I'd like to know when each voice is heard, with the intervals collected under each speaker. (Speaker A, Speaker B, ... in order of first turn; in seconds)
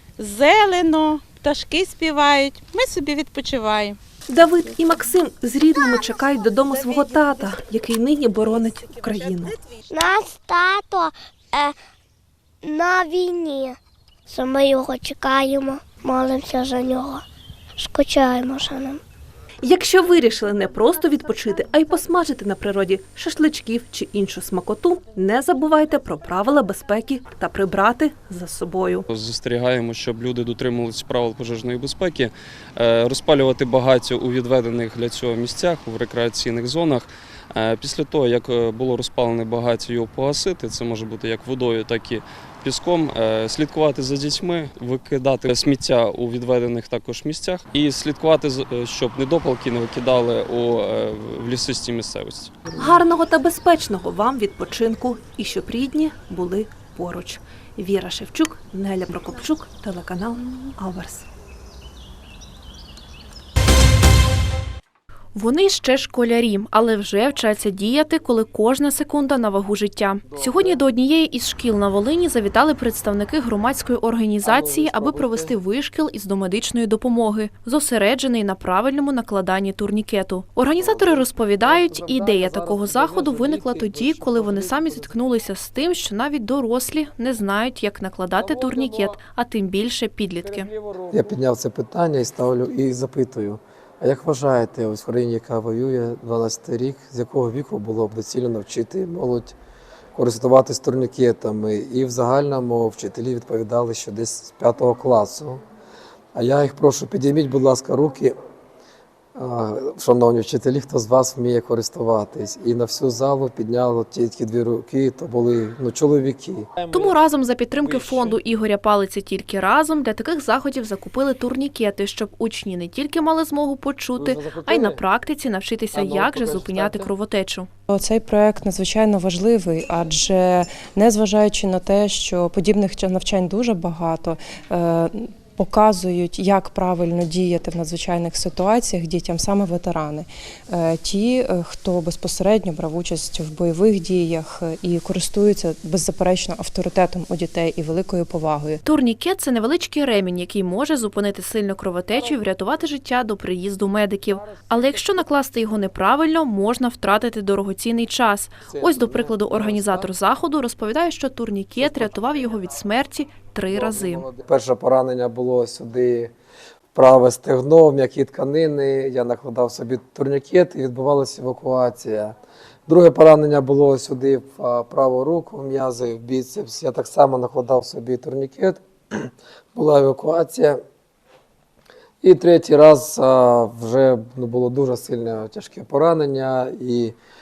Speaker A: 0.2-4.0, 6.7-7.1, 8.9-9.5
Speaker B: 4.3-9.6, 19.6-29.1, 52.8-61.3
Speaker C: 9.9-11.8, 12.6-17.2, 17.8-19.0
Speaker D: 29.1-52.5
Speaker E: 65.3-90.7, 116.9-127.7, 148.8-164.3
Speaker F: 74.4-75.5, 82.0-83.2, 91.1-99.5, 100.2-105.6, 106.3-108.3, 109.4-116.8, 124.2-125.0, 126.0-127.1, 158.8-159.9, 163.8-166.3, 166.9-172.4, 172.9-180.8, 182.2-187.2
Speaker G: 127.9-148.8